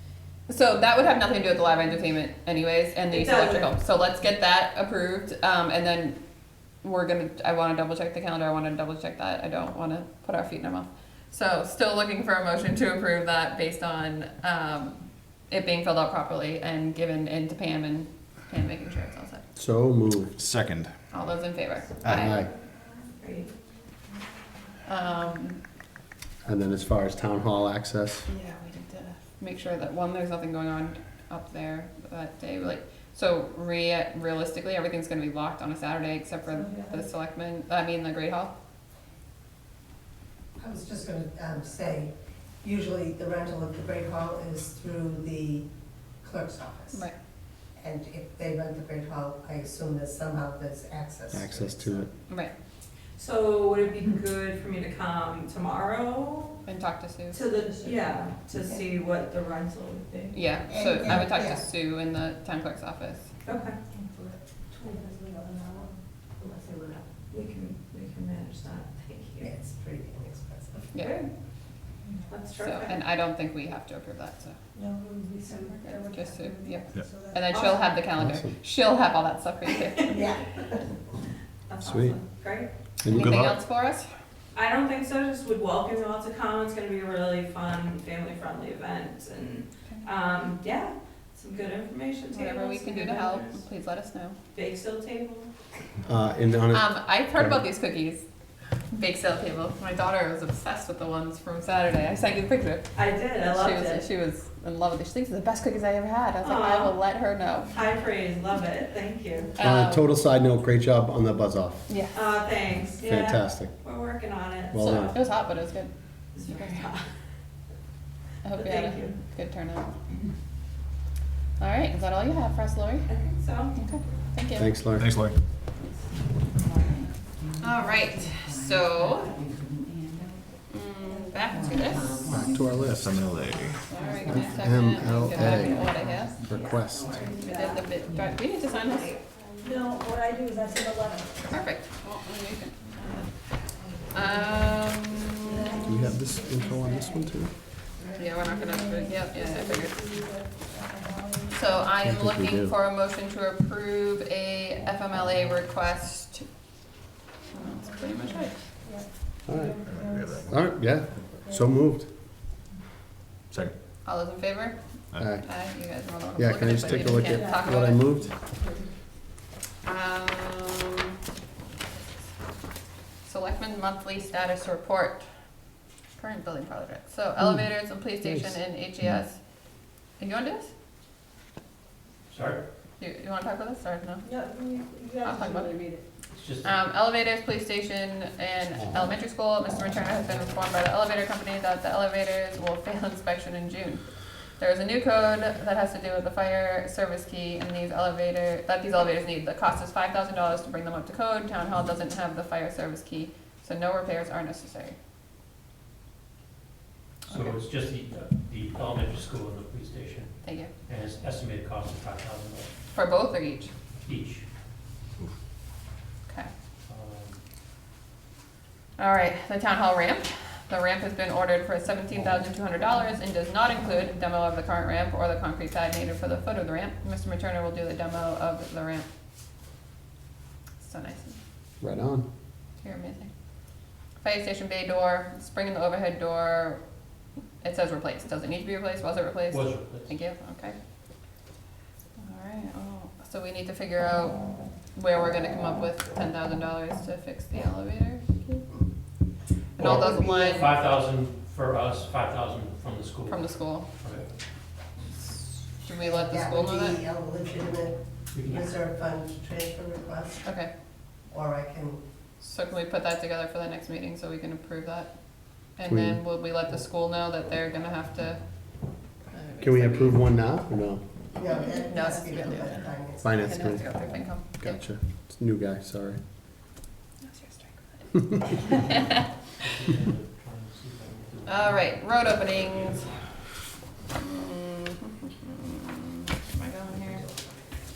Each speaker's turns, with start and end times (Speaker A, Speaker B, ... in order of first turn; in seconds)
Speaker A: 0.5-19.4, 21.1-22.4, 24.9-25.6, 28.3-38.5, 56.6-57.4, 60.3-63.3, 72.6-74.6, 75.7-80.3, 83.1-84.1, 92.3-94.4, 96.7-98.2, 98.9-107.8, 109.5-110.2, 111.9-112.3, 114.8-115.9, 116.4-116.8, 118.4-119.9, 121.6-123.2, 123.7-124.8, 125.8-126.0, 127.6-129.4, 130.7-132.5, 133.7-136.4, 137.4-139.2, 141.5-145.7, 148.2-150.1, 151.5-156.8, 157.5-158.7, 164.0-168.0, 169.8-171.0, 173.2-180.7, 183.0-184.3, 185.2-185.9, 186.6-204.9, 207.3-207.6, 210.4-210.7, 212.9-213.7, 219.0-229.1, 230.8-231.4, 232.8-233.3, 234.2-236.8, 237.6-240.8, 242.2-248.9, 249.8-250.7, 253.2-253.9, 255.8-257.0, 260.4-260.7, 262.4-270.2, 271.6-274.9, 277.2-278.8, 281.4-283.2, 284.2-287.6
Speaker B: 3.1-3.7, 23.2-23.5, 53.1-56.7, 57.3-60.4, 63.5-63.9, 67.2-69.5, 71.0-71.3, 72.3-73.0, 81.7-82.7, 84.5-93.6, 94.5-95.5, 102.9-104.0, 106.4-107.0, 107.7-109.5, 112.1-115.1, 116.3-117.1, 118.5-119.2, 123.1-123.9, 126.5-130.5, 131.5-133.0, 133.7-139.3
Speaker C: 19.6-20.4, 22.0-22.5, 26.4-28.3, 51.3-52.1, 78.2-78.6, 81.8-82.2, 83.0-83.6, 96.0-97.6, 109.6-111.8, 113.0-113.7, 114.7-115.2, 124.5-125.2, 132.3-133.2, 134.3-135.7, 136.4-137.3, 145.8-147.6, 152.0-152.8, 159.4-162.1, 165.1-165.6, 166.3-168.4, 177.4-179.2, 231.8-232.3, 265.8-266.2, 269.6-271.1, 273.2-276.2
Speaker D: 20.4-21.0, 125.0-125.4, 132.8-133.8, 159.8-160.6, 163.5-163.8
Speaker E: 36.5-37.0, 63.9-66.0, 72.0-72.3, 74.7-77.8, 80.1-80.5, 131.0-132.1, 136.9-137.9, 139.6-141.7, 143.9-147.4, 148.0-151.8, 157.7-161.8, 167.1-168.9, 184.2-186.1
Speaker F: 40.5-52.1, 60.7-61.6, 66.4-67.2, 69.4-71.0, 80.1-80.7, 249.8-250.6, 255.9-260.6, 261.2-262.0, 271.3-273.5
Speaker G: 182.3-182.7, 186.3-186.7, 207.3-212.8, 213.9-214.5, 216.8-217.4, 239.5-240.1, 249.8-254.3, 258.3-258.8, 278.7-283.5